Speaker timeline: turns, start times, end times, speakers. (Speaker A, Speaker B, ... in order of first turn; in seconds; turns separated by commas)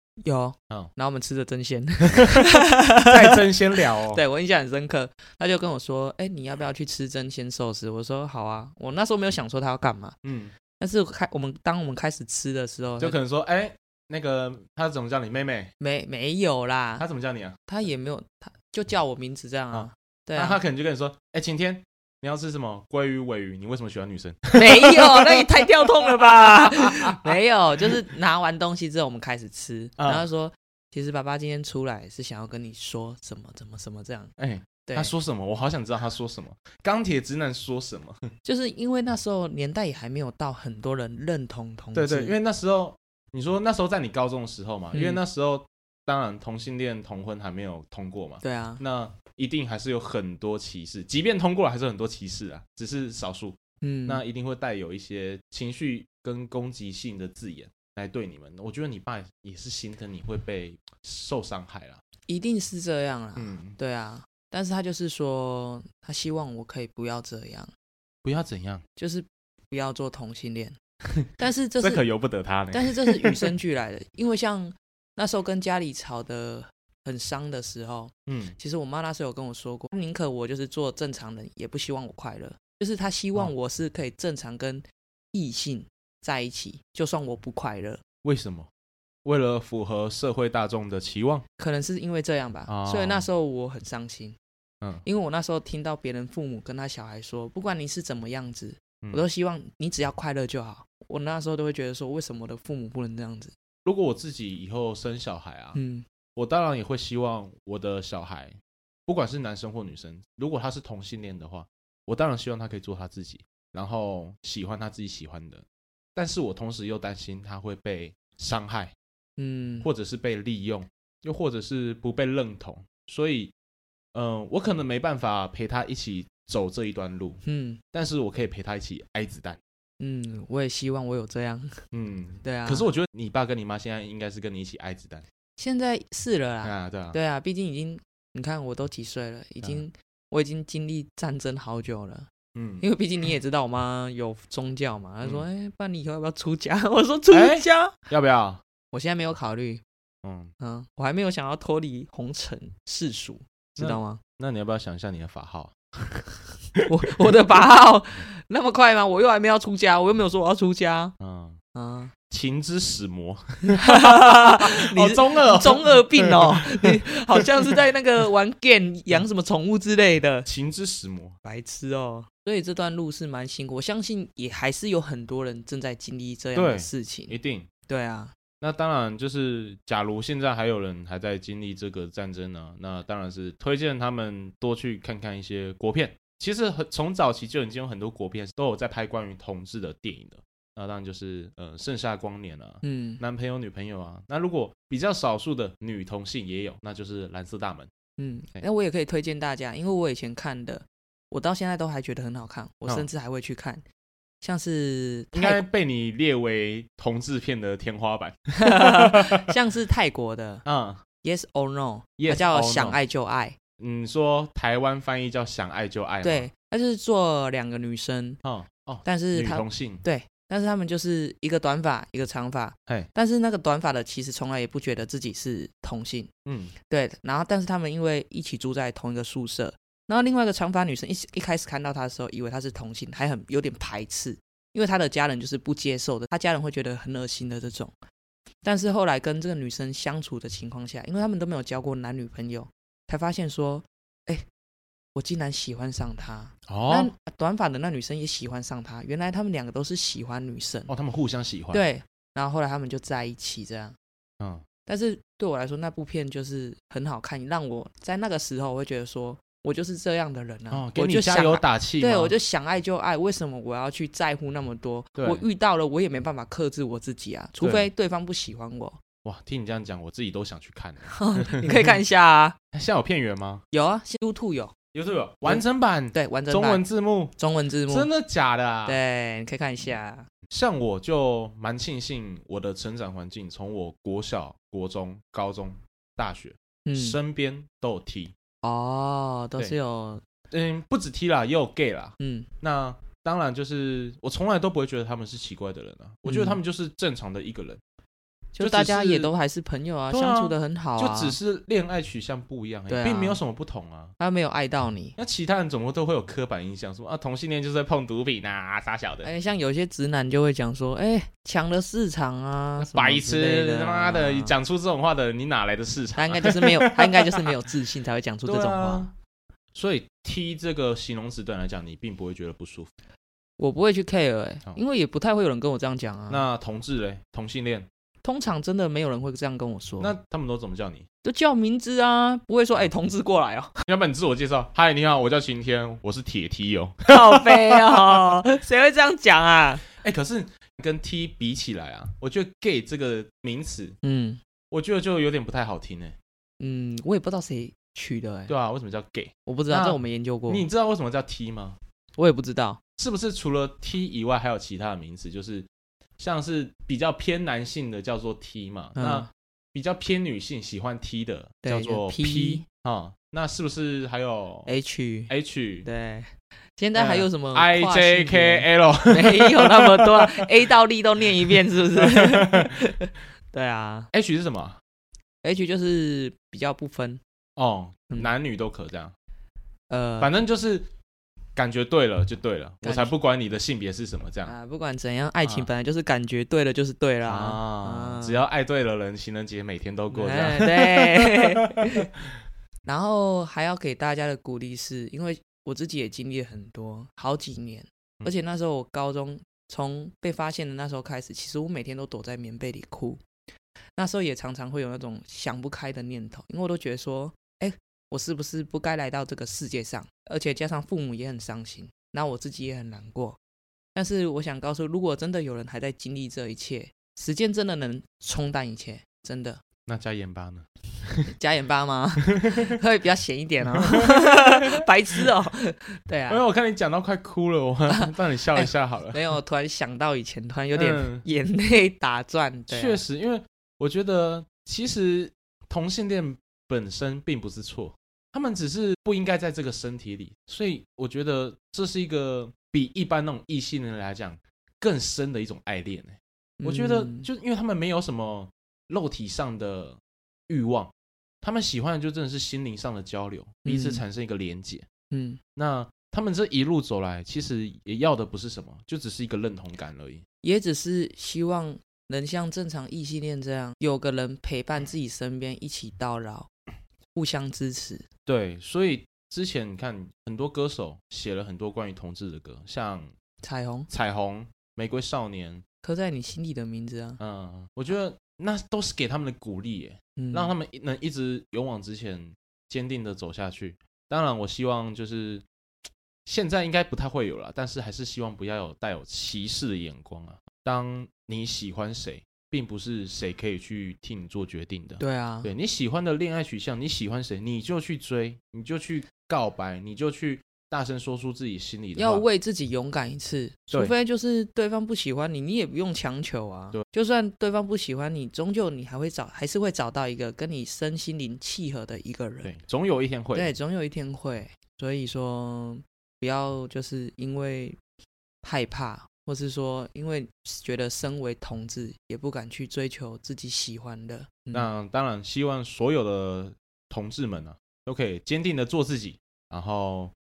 Speaker A: 0.2-3.4, Speaker B: 2.2-2.5, Speaker B: 3.0-4.2, Speaker A: 4.0-10.2, Speaker B: 10.2-10.5, Speaker A: 10.8-13.2, Speaker B: 13.0-15.7, Speaker A: 15.8-17.0, Speaker B: 17.0-17.6, Speaker A: 17.7-20.6, Speaker B: 19.7-27.3, Speaker A: 24.5-34.3, Speaker B: 30.0-30.2, Speaker B: 34.4-38.3, Speaker A: 34.8-35.1, Speaker A: 38.4-42.3, Speaker B: 41.9-62.0, Speaker A: 44.9-45.2, Speaker A: 48.4-48.8, Speaker A: 53.8-54.2, Speaker A: 62.3-67.7, Speaker B: 63.4-63.8, Speaker B: 68.2-68.8, Speaker A: 69.0-70.8, Speaker A: 71.3-72.0, Speaker B: 71.8-73.5, Speaker A: 72.7-88.0, Speaker B: 78.3-78.5, Speaker B: 88.2-88.7, Speaker B: 89.2-91.5, Speaker A: 91.6-94.4, Speaker B: 92.7-93.2, Speaker A: 95.0-103.5, Speaker B: 103.8-105.8, Speaker A: 105.8-106.0, Speaker B: 106.3-118.9, Speaker A: 119.4-119.9, Speaker B: 119.8-123.5, Speaker B: 124.1-127.4, Speaker A: 127.4-127.8, Speaker B: 127.9-129.6, Speaker A: 130.0-131.8, Speaker B: 131.9-135.2, Speaker A: 132.4-132.9, Speaker A: 135.6-142.3, Speaker B: 136.6-137.2, Speaker B: 142.5-142.8, Speaker A: 142.8-148.0, Speaker B: 147.3-148.6, Speaker A: 148.9-149.8, Speaker B: 150.2-150.5, Speaker A: 150.6-154.2, Speaker B: 153.8-156.2, Speaker A: 156.8-161.1, Speaker B: 161.2-161.6, Speaker A: 161.7-162.1, Speaker B: 162.3-167.4, Speaker A: 163.7-170.5, Speaker B: 170.4-171.4, Speaker A: 171.4-177.3, Speaker B: 176.5-177.7, Speaker A: 177.9-178.3, Speaker B: 178.6-197.9, Speaker A: 192.8-193.2, Speaker A: 198.2-203.8, Speaker A: 204.4-205.6, Speaker B: 205.3-209.4, Speaker A: 208.6-210.6, Speaker B: 210.6-211.0, Speaker A: 211.2-213.6, Speaker B: 212.2-213.0, Speaker B: 213.8-216.5, Speaker A: 216.2-218.4, Speaker B: 218.4-220.0, Speaker A: 219.0-226.3, Speaker B: 226.4-226.7, Speaker A: 226.9-237.9, Speaker A: 238.6-244.4, Speaker A: 245.1-250.9, Speaker B: 246.7-247.1, Speaker B: 250.9-251.8, Speaker A: 251.7-253.9, Speaker A: 254.8-269.0, Speaker B: 260.7-262.3, Speaker B: 265.1-265.4, Speaker B: 267.6-267.9, Speaker B: 269.2-271.9, Speaker A: 271.1-272.6, Speaker B: 272.7-273.6, Speaker A: 273.7-274.7, Speaker B: 274.9-277.3, Speaker A: 275.4-276.8, Speaker A: 277.4-278.1, Speaker B: 277.9-279.0, Speaker A: 278.9-280.3, Speaker B: 280.5-288.3, Speaker A: 286.9-287.2, Speaker A: 288.6-290.2, Speaker B: 290.5-297.8, Speaker A: 292.2-292.5, Speaker A: 296.2-296.6, Speaker A: 298.5-301.4, Speaker B: 298.6-299.3, Speaker B: 300.1-304.1, Speaker A: 302.9-303.4, Speaker A: 304.2-305.1, Speaker B: 305.2-309.3, Speaker A: 309.2-314.5, Speaker B: 312.8-317.5, Speaker A: 316.2-319.1, Speaker B: 318.5-319.1, Speaker B: 319.7-322.9, Speaker A: 323.6-326.5, Speaker B: 326.3-327.9, Speaker A: 328.2-330.1, Speaker B: 330.0-331.1, Speaker A: 331.2-333.8, Speaker B: 333.8-338.1, Speaker A: 337.1-339.8, Speaker B: 340.0-344.0, Speaker A: 344.0-344.4, Speaker B: 344.7-346.1, Speaker A: 346.6-348.5, Speaker B: 348.5-351.8, Speaker A: 349.5-350.7, Speaker A: 352.2-352.8, Speaker B: 353.0-355.7, Speaker B: 356.2-364.7, Speaker A: 359.0-359.3, Speaker A: 361.6-362.6, Speaker A: 364.7-365.3, Speaker B: 365.3-365.9, Speaker A: 365.8-374.1, Speaker B: 366.9-370.5, Speaker B: 371.5-372.8, Speaker B: 374.1-374.8, Speaker A: 375.4-377.2, Speaker B: 377.6-379.1, Speaker A: 379.9-380.4, Speaker B: 380.2-380.9, Speaker B: 381.6-384.5, Speaker A: 382.8-383.1, Speaker A: 384.5-388.4, Speaker B: 385.4-385.7, Speaker B: 387.2-391.8, Speaker A: 390.1-392.1, Speaker A: 392.8-403.2, Speaker A: 404.0-413.4, Speaker A: 413.9-419.6, Speaker B: 419.9-421.3, Speaker A: 421.3-426.4, Speaker B: 422.3-422.8, Speaker B: 423.8-424.7, Speaker B: 426.3-429.2, Speaker A: 427.9-433.0, Speaker B: 430.8-431.2, Speaker B: 432.7-454.9, Speaker A: 446.6-447.3, Speaker A: 453.6-454.0, Speaker A: 455.1-455.4, Speaker B: 455.6-460.2, Speaker A: 460.4-466.5, Speaker A: 467.1-468.1, Speaker B: 468.2-473.1, Speaker A: 473.4-473.9, Speaker B: 473.9-475.6, Speaker A: 475.8-477.2, Speaker B: 477.2-485.4, Speaker A: 480.1-480.5, Speaker B: 486.2-502.2, Speaker A: 495.0-495.5, Speaker A: 502.0-512.5, Speaker B: 512.4-513.5, Speaker A: 513.3-517.8, Speaker A: 518.4-524.7, Speaker B: 524.5-530.1